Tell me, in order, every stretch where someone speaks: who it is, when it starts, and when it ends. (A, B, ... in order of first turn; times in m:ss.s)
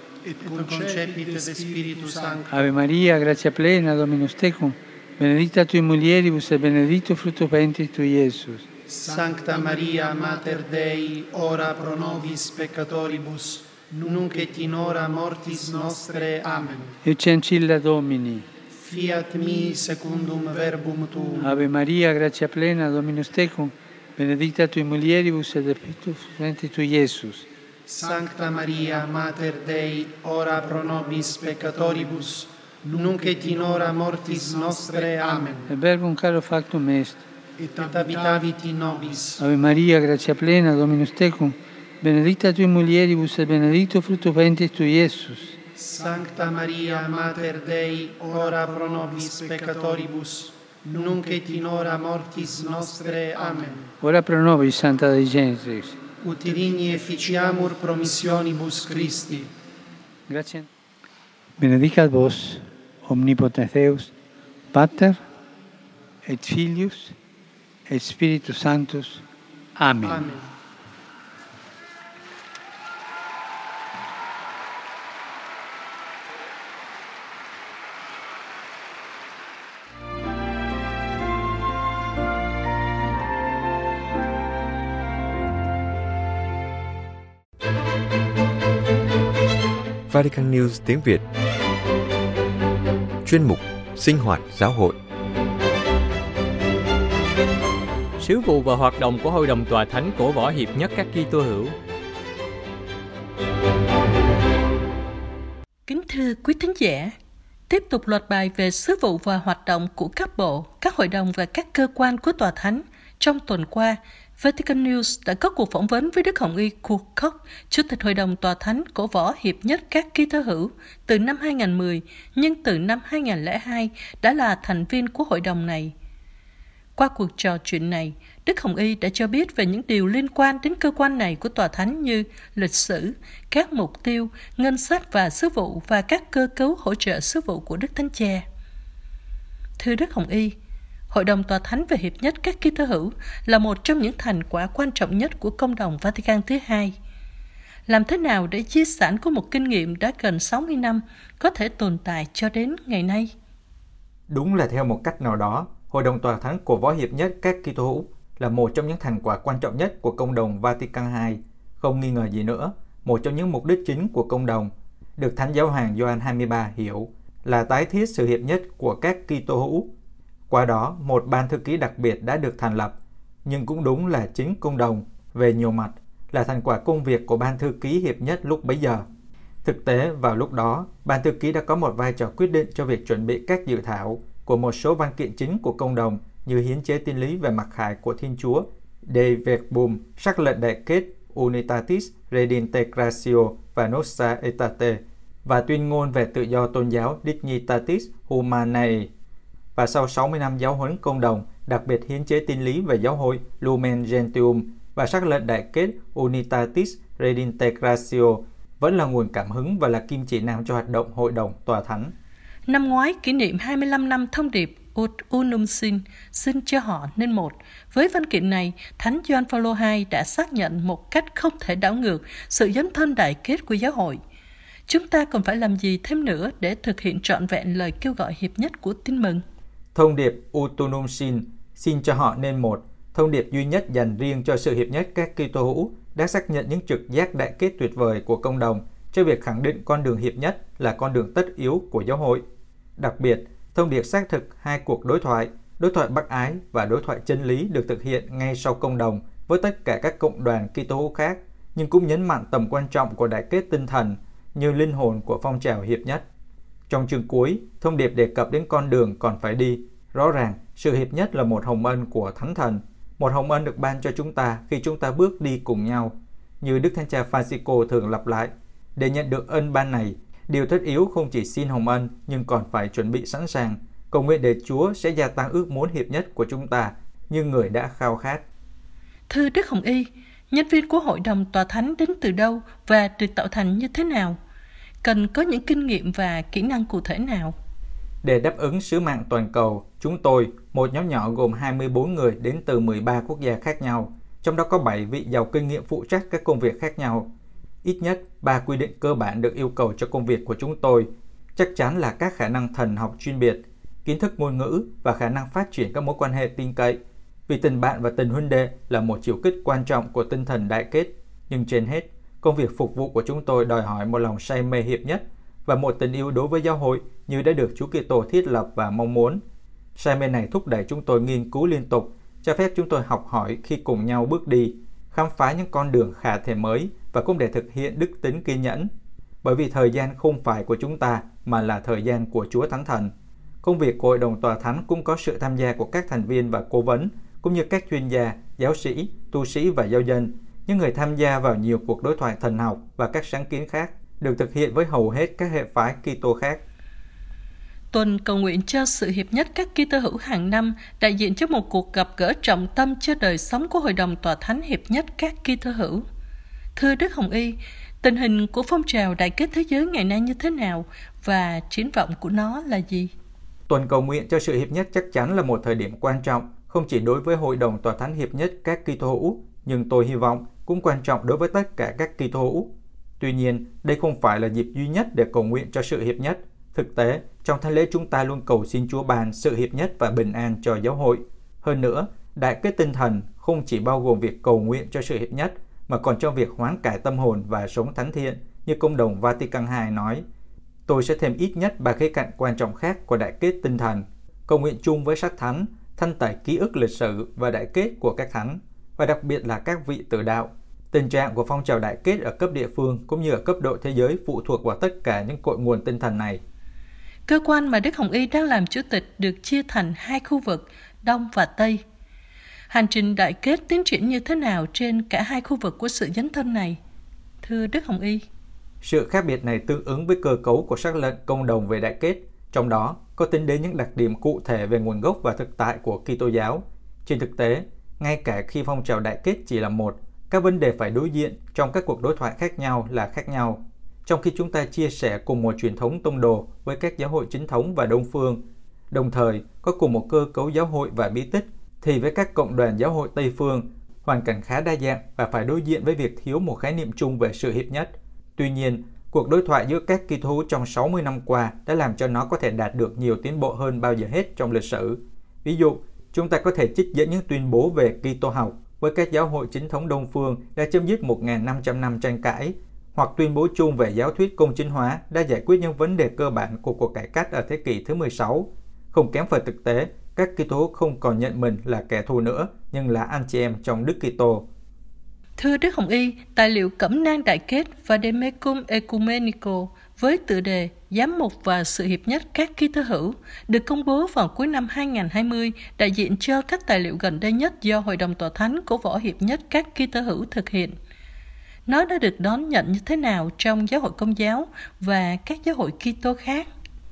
0:00.2-0:02.6 A
0:02.5-0:08.7 B
0:08.9-0:17.0 A
0:17.0-0:18.5 B
0:18.8-0:21.5 A
0:21.4-0:27.5 B
0:27.9-0:35.7 A
0:35.7-0:37.2 B
0:37.6-0:39.4 A
0:39.4-0:45.6 B
0:45.8-0:53.9 A
0:54.0-0:56.0 B
0:56.2-0:59.5 A
1:00.3-1:00.7 B
1:01.6-1:04.1 B
1:04.7-1:05.2 B
1:06.2-1:07.2 B
1:07.9-1:09.2 B
1:09.8-1:10.3 B
1:10.0-1:10.4 A
1:30.1-1:31.2 C
1:33.2-1:35.0 C
1:38.2-1:41.8 D
1:45.9-1:47.1 E
1:47.7-2:05.9 E
2:07.0-2:18.4 E
2:19.8-2:20.6 E
2:21.1-2:27.0 E
2:27.9-2:33.3 E
2:34.3-2:49.9 F
2:50.5-2:59.0 F
2:59.6-3:19.1 F
3:19.7-3:32.1 F
3:32.7-3:44.2 E
3:44.9-3:49.4 E
3:49.9-4:02.4 F
4:03.0-4:16.2 F
4:16.9-4:38.4 F
4:39.3-4:44.4 E
4:45.0-4:47.5 E
4:48.2-4:57.3 F
4:57.8-5:19.4 F
5:20.0-5:28.9 F
5:29.4-5:46.6 F
5:47.9-5:56.0 E
5:56.8-6:03.1 E
6:03.7-6:30.2 F
6:30.9-6:46.4 F
6:47.3-6:51.8 E
6:52.7-6:56.8 E
6:57.4-6:58.2 E
6:58.8-7:54.4 F
7:55.4-8:10.8 E
8:11.7-8:16.5 E